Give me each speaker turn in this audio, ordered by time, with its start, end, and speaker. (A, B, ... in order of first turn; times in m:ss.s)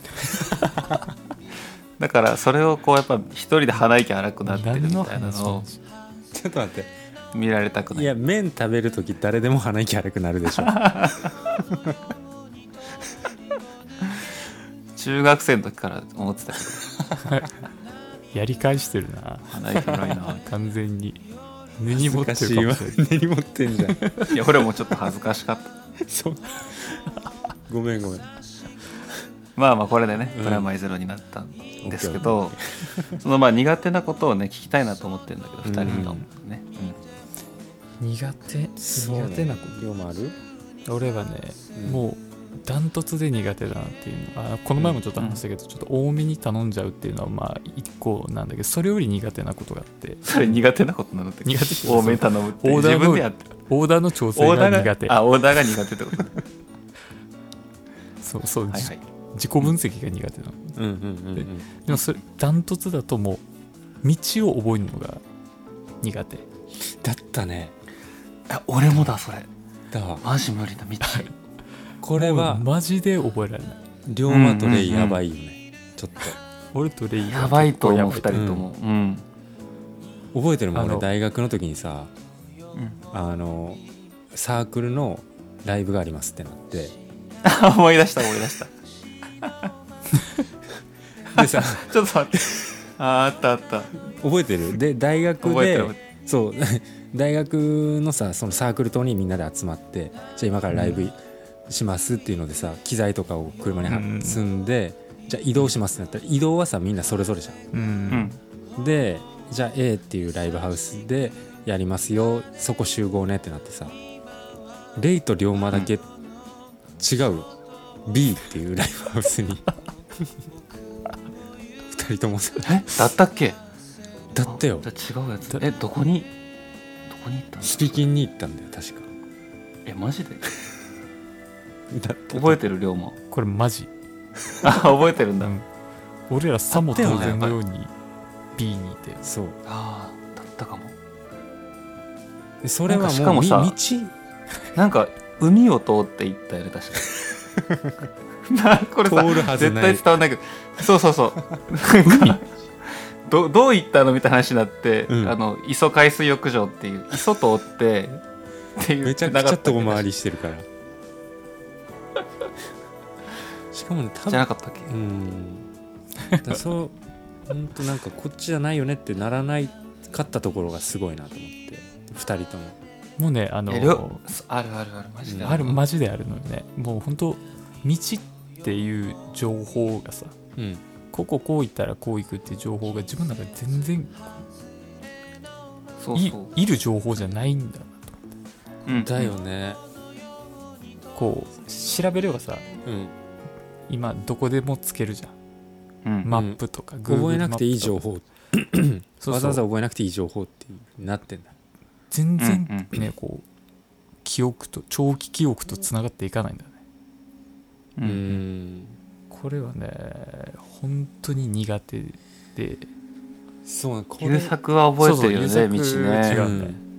0:00.4-0:01.0 A
0:02.0-0:05.6 A
0:04.5-0:05.8 B
0:06.3-0:06.9 C
0:07.3-0:08.1 A
0:07.9-0:11.9 C
0:10.6-0:11.2 A
0:15.0-0:17.0 A
0:17.2-0:17.5 B
0:18.3-0:21.2 B
0:19.5-0:20.4 A
0:21.8-0:23.0 B
0:21.9-0:24.2 C
0:24.0-0:24.3 B
0:24.3-0:25.8 A
0:26.0-0:27.1 C
0:27.7-0:28.3 C
0:29.6-0:32.6 A
0:30.3-0:30.7 C
0:31.8-0:33.2 C
0:33.1-0:37.0 A
0:35.6-0:36.2 C
0:38.0-0:39.8 B
0:38.8-0:40.4 C
0:40.9-0:50.2 B
0:41.8-0:42.0 C
0:44.8-0:45.0 C
0:45.2-0:45.4 A
0:50.2-0:53.5 A
0:51.4-0:55.2 B
0:54.4-0:56.4 A
0:58.2-1:00.8 B
0:58.7-0:59.0 A
1:00.8-1:01.7 C
1:01.4-1:03.4 B
1:04.0-1:05.2 B
1:06.0-1:06.4 B
1:06.8-1:07.7 C
1:08.5-1:09.5 A
1:09.9-1:10.2 C
1:10.2-1:11.3 A
1:11.0-1:11.3 B
1:12.0-1:12.6 C
1:12.1-1:13.8 B
1:14.0-1:16.4 C
1:14.3-1:15.2 A
1:16.7-1:18.4 B
1:17.2-1:19.2 A
1:18.3-1:18.7 C
1:20.3-1:22.1 C
1:20.7-1:21.1 B
1:23.1-1:27.0 C
1:27.4-1:28.7 A
1:31.3-1:33.9 A
1:31.3-1:31.9 C
1:34.1-1:47.6 C
1:35.4-1:36.0 A
1:43.8-1:44.4 B
1:47.7-1:48.4 B
1:48.1-1:48.4 A
1:48.8-1:54.0 C
1:55.0-1:56.1 C
1:57.0-1:57.5 C
1:58.0-1:59.6 C
2:01.9-2:02.9 C
2:02.6-2:03.6 A
2:04.3-2:04.9 C
2:04.5-2:06.3 A
2:07.1-2:08.0 A
2:07.6-2:09.1 C
2:09.8-2:10.5 A
2:11.9-2:12.6 C
2:12.3-2:13.2 A
2:13.3-2:13.9 B
2:14.6-2:15.5 A
2:15.4-2:15.6 B
2:16.3-2:17.9 B
2:16.7-2:17.6 A
2:16.9-2:17.4 C
2:18.6-2:19.2 B
2:19.2-2:19.6 C
2:19.6-2:20.9 A
2:22.6-2:24.1 C
2:22.9-2:23.8 A
2:24.7-2:27.2 A
2:27.6-2:27.9 C
2:28.5-2:38.2 A
2:29.0-2:30.0 C
2:32.0-2:32.4 B
2:35.1-2:35.4 C
2:38.8-2:40.0 A
2:39.0-2:40.7 C
2:43.7-2:45.7 C
2:44.3-2:44.9 A
2:46.4-2:47.0 C
2:47.5-2:52.8 C
2:53.2-2:54.2 B
2:53.7-2:55.8 A
2:55.2-2:55.6 C
2:55.4-3:00.3 B
3:00.6-3:00.8 C
3:01.1-3:04.4 B
3:06.0-3:06.5 A
3:06.1-3:08.2 B
3:08.8-3:09.3 A
3:08.9-3:09.8 C
3:11.1-3:12.6 B
3:12.8-3:13.1 C
3:13.9-3:15.3 B
3:16.2-3:18.0 B
3:16.3-3:21.5 C
3:19.2-3:19.6 B
3:22.1-3:23.4 B
3:22.4-3:22.9 A
3:24.2-3:26.8 B
3:28.0-3:28.3 A
3:28.0-3:29.0 C
3:29.3-3:32.9 B
3:33.6-3:34.5 C
3:34.2-3:36.5 A
3:35.0-3:36.8 B
3:36.2-3:36.8 C